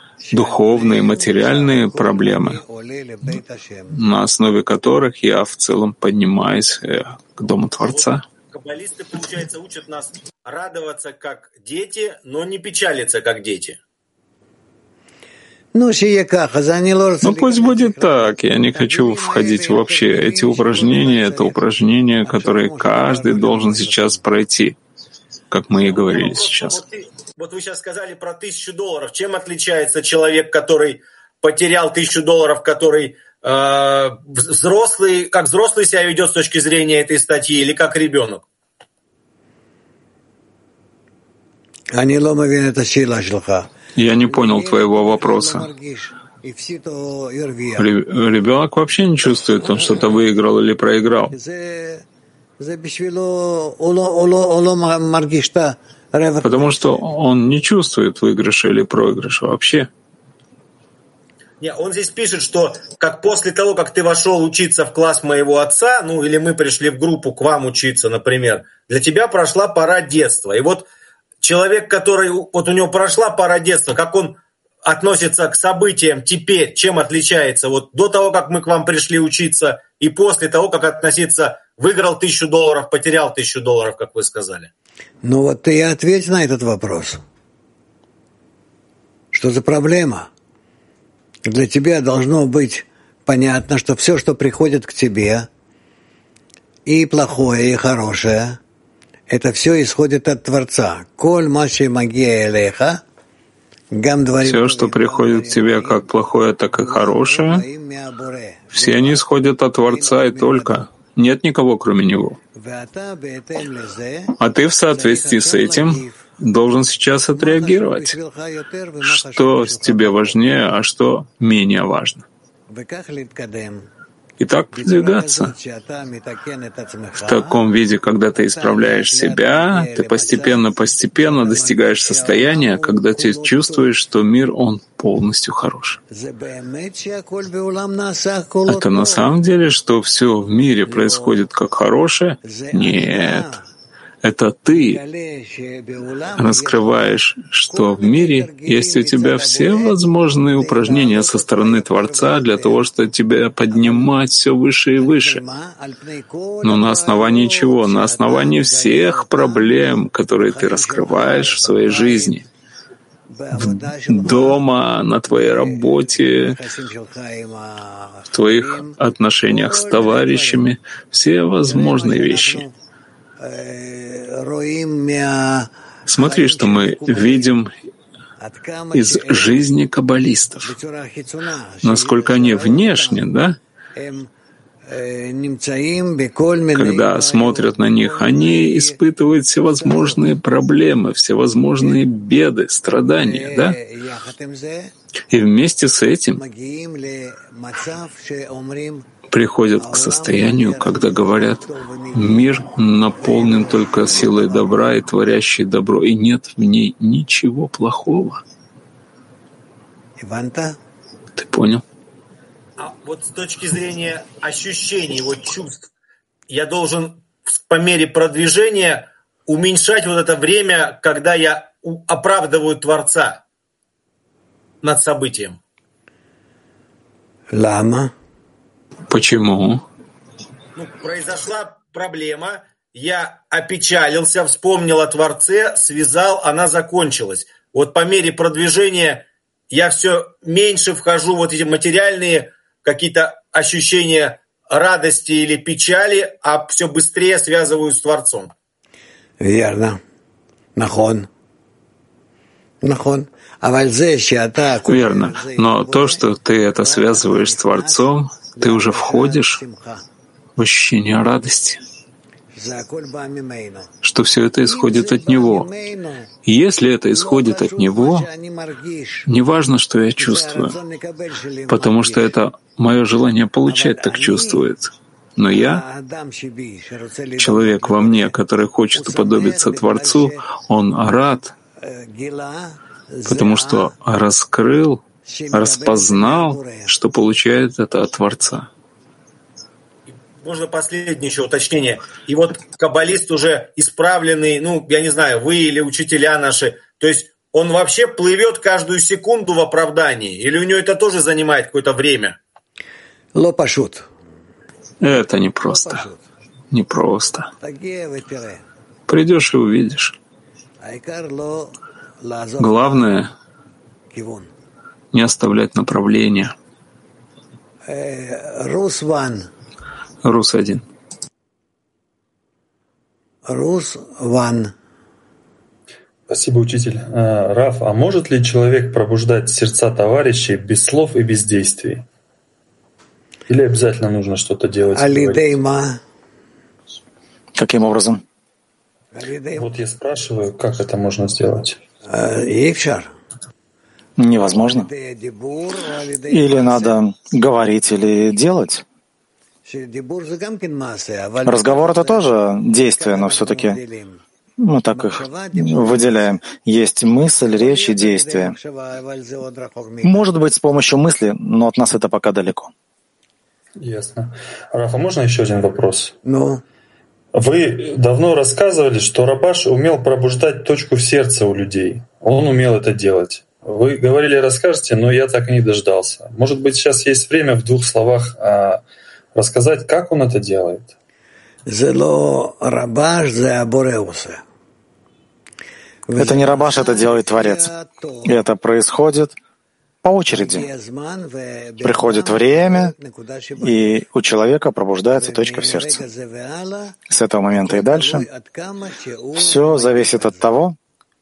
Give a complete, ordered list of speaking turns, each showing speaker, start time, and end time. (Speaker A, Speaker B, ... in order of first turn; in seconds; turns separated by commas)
Speaker A: 0.2-4.0, Speaker B: 0.3-2.6, Speaker B: 3.9-8.2, Speaker C: 7.8-13.8, Speaker A: 15.7-21.6, Speaker B: 17.2-24.8, Speaker A: 22.2-24.2, Speaker B: 25.5-26.8, Speaker C: 25.8-38.4, Speaker A: 41.9-43.7, Speaker B: 44.0-45.7, Speaker A: 44.3-47.9, Speaker B: 47.8-51.3, Speaker A: 51.3-52.0, Speaker A: 52.6-57.0, Speaker B: 56.4-59.9, Speaker C: 61.6-70.9, Speaker C: 71.4-84.7, Speaker A: 85.2-87.2, Speaker A: 89.3-90.3, Speaker A: 91.4-95.5, Speaker A: 96.9-98.6, Speaker A: 99.3-103.0, Speaker A: 103.9-106.1, Speaker B: 104.4-107.6, Speaker A: 106.6-109.2, Speaker B: 108.7-112.4, Speaker A: 109.8-110.8, Speaker A: 112.5-114.3, Speaker B: 114.4-118.2, Speaker A: 114.9-116.2, Speaker A: 117.3-120.4, Speaker B: 119.0-122.2, Speaker A: 122.7-123.9, Speaker B: 124.4-125.5, Speaker A: 124.7-127.6, Speaker B: 127.2-136.0, Speaker A: 128.3-130.6, Speaker A: 131.2-133.9, Speaker A: 136.1-139.3, Speaker B: 138.7-143.6, Speaker A: 140.8-141.4, Speaker A: 142.4-143.6, Speaker B: 144.2-145.0, Speaker A: 144.7-147.1, Speaker B: 146.4-155.4, Speaker A: 147.7-152.9, Speaker A: 153.7-154.1, Speaker A: 155.0-159.9, Speaker B: 156.6-162.4, Speaker A: 160.4-162.4, Speaker A: 163.3-164.7, Speaker B: 163.5-166.6, Speaker A: 165.3-170.7, Speaker B: 168.3-172.6, Speaker A: 171.7-172.7, Speaker A: 173.4-177.5, Speaker B: 176.1-177.7, Speaker A: 178.4-179.6, Speaker B: 178.9-180.7, Speaker A: 180.6-183.2, Speaker B: 181.8-183.6, Speaker A: 183.9-184.3, Speaker A: 184.9-189.0, Speaker B: 186.7-193.8, Speaker A: 189.8-190.3, Speaker A: 193.2-194.9, Speaker B: 195.3-196.4, Speaker A: 196.3-199.1, Speaker B: 199.3-201.6, Speaker A: 199.8-204.9, Speaker B: 202.1-208.4, Speaker A: 210.2-210.8, Speaker B: 211.4-211.8, Speaker C: 212.8-215.9, Speaker C: 216.5-223.4, Speaker C: 224.8-225.6, Speaker A: 227.5-228.1, Speaker B: 229.1-229.8, Speaker C: 230.8-248.5, Speaker A: 249.4-250.0, Speaker A: 250.8-251.3, Speaker A: 252.8-256.2, Speaker B: 254.8-259.6, Speaker A: 256.8-258.0, Speaker A: 258.5-260.0, Speaker B: 260.6-261.8, Speaker A: 262.5-263.9, Speaker B: 264.0-265.7, Speaker A: 264.6-266.3, Speaker B: 266.4-268.3, Speaker A: 267.1-269.3, Speaker B: 269.3-270.7, Speaker A: 270.1-272.2, Speaker B: 271.7-275.8, Speaker A: 273.7-274.6, Speaker A: 275.5-278.4, Speaker B: 277.4-281.5, Speaker A: 278.9-280.4, Speaker A: 281.8-283.9, Speaker B: 283.3-285.0, Speaker A: 285.2-286.9, Speaker B: 285.5-288.7, Speaker C: 290.4-302.4, Speaker A: 303.3-304.1, Speaker B: 305.0-306.0, Speaker A: 305.6-306.2, Speaker B: 306.7-307.5, Speaker A: 307.6-308.6, Speaker B: 309.1-310.1, Speaker A: 310.8-313.1, Speaker B: 312.6-313.3, Speaker A: 314.1-314.5, Speaker B: 315.1-316.5, Speaker A: 317.8-319.5, Speaker B: 320.2-320.8, Speaker A: 323.4-324.7, Speaker D: 326.3-332.0, Speaker D: 333.5-335.5, Speaker A: 334.9-336.0, Speaker E: 337.6-338.2, Speaker A: 339.1-339.8, Speaker D: 339.6-341.8, Speaker A: 342.0-343.1, Speaker E: 344.2-344.9, Speaker A: 344.4-347.0, Speaker E: 346.3-348.8, Speaker A: 349.6-354.2, Speaker E: 351.4-353.8, Speaker E: 354.6-358.6, Speaker A: 354.9-356.4, Speaker A: 357.4-360.2, Speaker E: 360.0-362.7, Speaker D: 363.8-366.1, Speaker A: 366.2-366.6, Speaker D: 367.3-378.8, Speaker D: 379.3-380.9, Speaker A: 381.6-384.4, Speaker A: 386.1-388.4, Speaker E: 386.1-387.7, Speaker E: 388.2-389.3, Speaker E: 390.0-390.7, Speaker A: 390.3-394.0, Speaker E: 391.8-392.9, Speaker E: 393.6-396.0, Speaker A: 395.1-397.0, Speaker E: 397.1-398.3, Speaker A: 397.6-400.5, Speaker E: 399.3-400.8